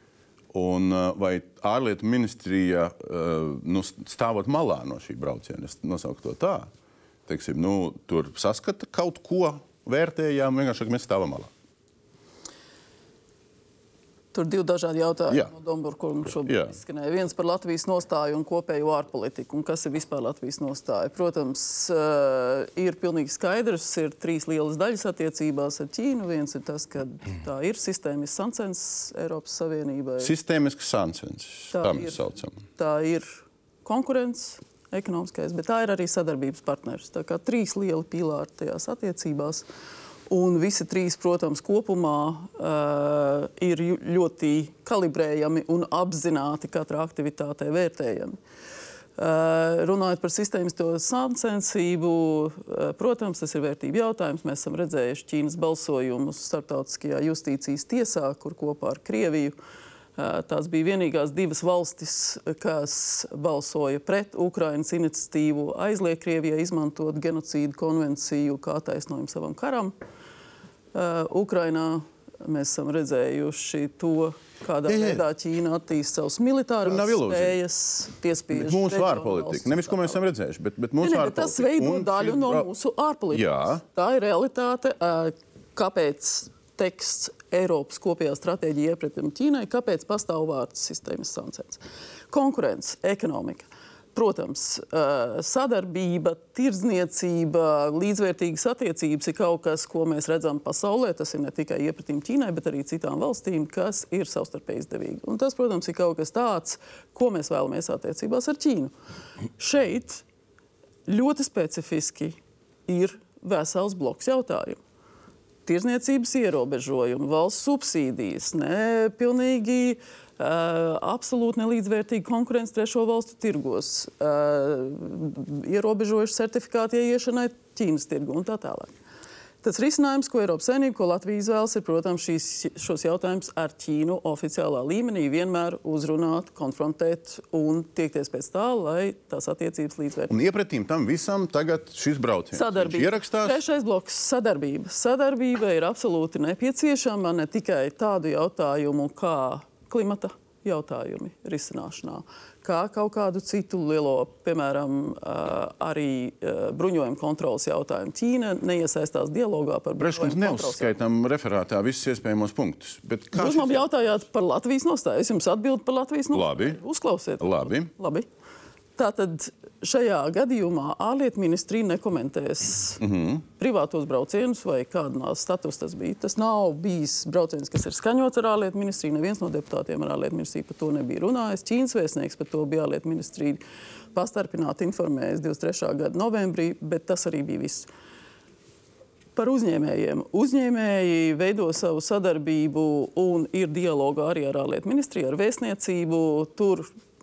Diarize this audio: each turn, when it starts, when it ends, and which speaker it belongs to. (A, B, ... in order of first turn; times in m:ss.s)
0:00.5-0:06.7 A
0:07.3-0:11.5 A
0:14.3-0:30.3 B
0:16.5-0:16.8 A
0:30.2-0:32.6 A
0:31.7-0:32.2 B
0:32.8-0:39.6 B
0:40.3-0:48.4 B
0:49.2-0:59.6 B
1:00.2-1:10.0 B
1:10.9-1:20.2 B
1:14.9-1:15.2 A
1:16.8-1:17.6 A
1:18.5-1:22.7 A
1:21.0-1:48.9 B
1:23.3-1:23.8 A
1:49.6-1:50.2 B
1:51.0-1:54.8 B
1:55.6-2:08.9 B
2:09.6-2:20.3 B
2:20.3-2:23.6 A
2:22.5-2:41.0 B
2:40.0-2:43.8 A
2:43.3-2:48.3 B
2:46.3-2:46.8 A
2:47.4-2:47.9 A
2:49.0-2:53.0 B
2:53.0-2:53.4 A
2:53.6-3:03.6 B
3:04.1-3:07.9 B
3:09.4-3:16.9 B